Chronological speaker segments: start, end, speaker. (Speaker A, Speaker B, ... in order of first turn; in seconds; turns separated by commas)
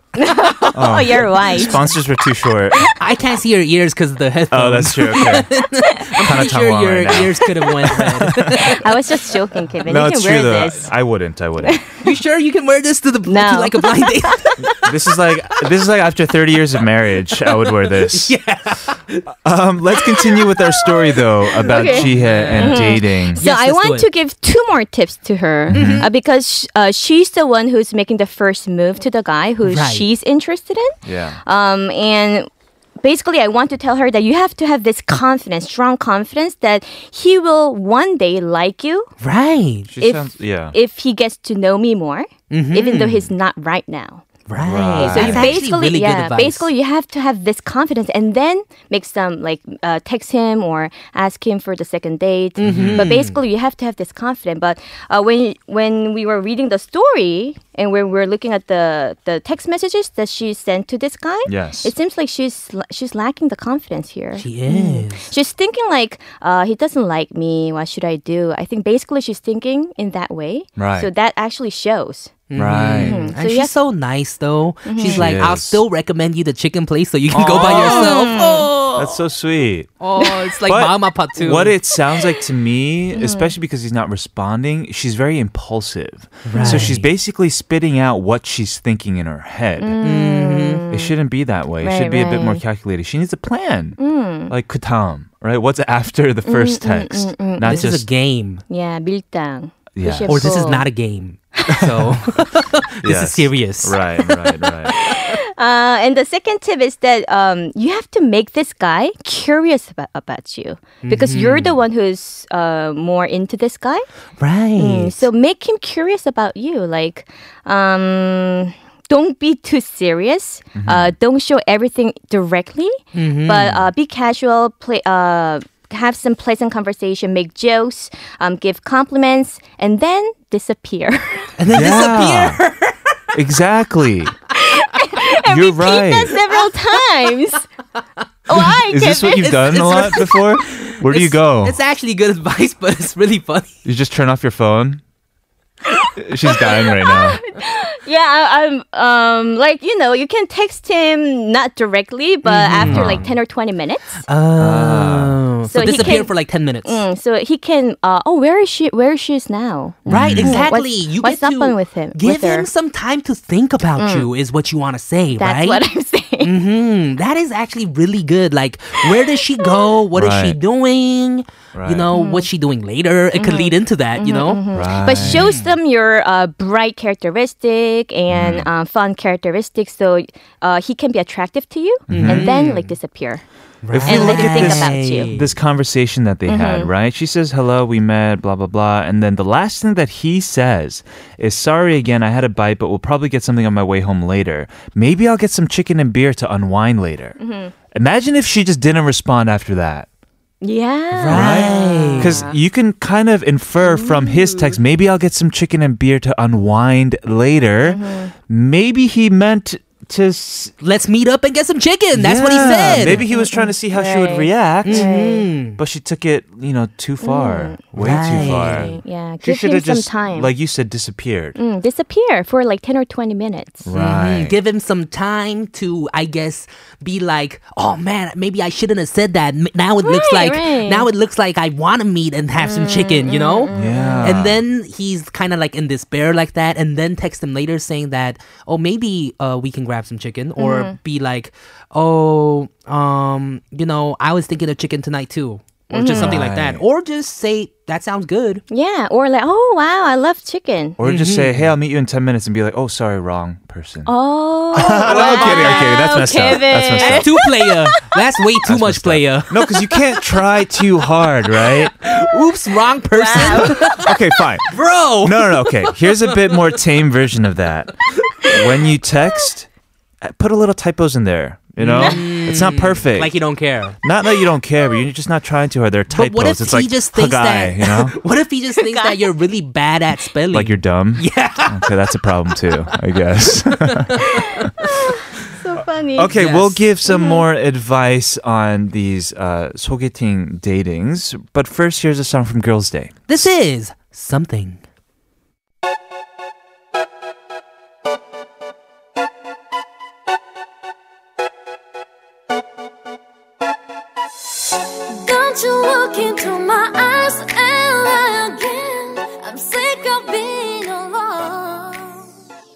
Speaker A: 0.2-1.8, Speaker B: 0.7-2.9, Speaker C: 3.0-8.8, Speaker B: 4.5-5.5, Speaker B: 6.2-8.7, Speaker A: 8.5-10.9, Speaker B: 9.8-11.8, Speaker A: 11.6-11.9, Speaker C: 12.0-14.8, Speaker A: 13.3-14.5, Speaker B: 14.7-18.4, Speaker C: 17.5-19.3, Speaker B: 19.4-23.4, Speaker C: 21.6-24.1, Speaker A: 21.7-32.5, Speaker B: 25.7-26.1, Speaker C: 25.7-26.1, Speaker C: 29.6-30.1, Speaker B: 31.0-31.4, Speaker A: 33.0-39.1, Speaker C: 39.2-39.9, Speaker B: 39.9-40.8, Speaker A: 40.0-44.2, Speaker C: 42.5-43.3, Speaker C: 44.5-46.7, Speaker B: 44.6-45.6, Speaker A: 45.0-72.3, Speaker C: 52.6-53.4, Speaker B: 52.6-53.1, Speaker B: 61.5-61.9, Speaker C: 64.3-65.3, Speaker B: 70.8-71.1, Speaker C: 72.5-79.2, Speaker B: 72.5-73.2, Speaker A: 73.0-73.7, Speaker A: 74.9-75.3, Speaker B: 75.0-75.8, Speaker B: 77.3-78.3, Speaker A: 77.5-78.7, Speaker B: 79.0-80.0, Speaker C: 80.0-81.8, Speaker B: 80.7-90.0, Speaker A: 83.2-83.5, Speaker C: 86.5-87.1, Speaker A: 86.5-86.9, Speaker A: 89.8-91.1, Speaker C: 90.0-90.8, Speaker B: 90.9-94.0, Speaker A: 91.8-92.6, Speaker A: 94.0-94.5, Speaker B: 94.5-98.1, Speaker A: 96.5-97.9, Speaker C: 97.6-98.6, Speaker A: 98.7-100.9, Speaker B: 100.0-100.5, Speaker C: 100.3-104.0, Speaker B: 101.8-102.2, Speaker B: 103.0-105.0, Speaker A: 104.9-114.1, Speaker C: 111.0-111.8, Speaker C: 114.4-115.3, Speaker A: 114.8-131.5, Speaker B: 120.8-121.1, Speaker C: 123.1-123.8, Speaker C: 131.6-133.2, Speaker B: 131.7-132.6, Speaker B: 133.3-134.3, Speaker A: 134.6-137.6, Speaker B: 135.4-136.3, Speaker A: 138.5-139.5, Speaker B: 138.6-141.8, Speaker C: 139.3-143.7, Speaker B: 143.8-145.0, Speaker A: 146.0-154.2, Speaker B: 146.2-147.4, Speaker C: 152.4-153.3, Speaker B: 152.8-153.3, Speaker C: 154.3-157.0, Speaker B: 154.6-156.2, Speaker A: 155.7-162.7, Speaker B: 160.1-160.6, Speaker C: 160.1-165.8, Speaker A: 164.0-164.3, Speaker A: 165.4-166.5, Speaker C: 166.4-174.6, Speaker B: 170.1-170.6, Speaker B: 171.7-172.1, Speaker A: 172.1-172.5, Speaker A: 173.3-183.4, Speaker B: 174.7-175.5, Speaker C: 175.2-175.7, Speaker B: 178.3-178.7, Speaker B: 182.1-182.5, Speaker C: 182.1-182.9, Speaker C: 183.8-185.6, Speaker B: 183.9-197.4, Speaker A: 184.1-185.3, Speaker A: 186.5-186.9, Speaker A: 197.4-197.7, Speaker B: 197.9-200.1, Speaker A: 200.6-202.6, Speaker C: 201.1-202.4, Speaker B: 201.3-210.7, Speaker A: 203.8-204.8, Speaker A: 207.8-208.3, Speaker C: 210.8-213.3, Speaker B: 212.1-215.1, Speaker A: 213.0-215.5, Speaker C: 214.8-215.8, Speaker B: 215.8-221.6, Speaker A: 217.2-220.5, Speaker C: 217.9-219.0, Speaker A: 221.6-223.9, Speaker B: 223.8-224.6, Speaker C: 223.9-248.6, Speaker A: 230.0-231.1, Speaker A: 232.6-234.3, Speaker B: 233.7-234.6, Speaker A: 240.6-241.0, Speaker A: 245.9-246.4, Speaker B: 246.1-246.8, Speaker A: 248.7-251.0, Speaker B: 251.0-254.1, Speaker C: 251.0-251.7, Speaker A: 254.1-258.1, Speaker B: 254.7-257.3, Speaker C: 254.8-255.9, Speaker C: 257.0-259.9, Speaker B: 258.6-262.1, Speaker C: 261.7-266.7, Speaker A: 263.1-264.0, Speaker B: 263.4-269.7, Speaker B: 270.2-273.4, Speaker C: 271.8-274.0, Speaker B: 274.0-278.2, Speaker C: 276.1-282.6, Speaker A: 278.8-279.3, Speaker B: 280.5-284.7, Speaker A: 284.2-286.4, Speaker B: 286.2-293.5, Speaker C: 286.4-286.8, Speaker A: 287.1-287.4, Speaker C: 293.3-294.8, Speaker D: 305.2-312.2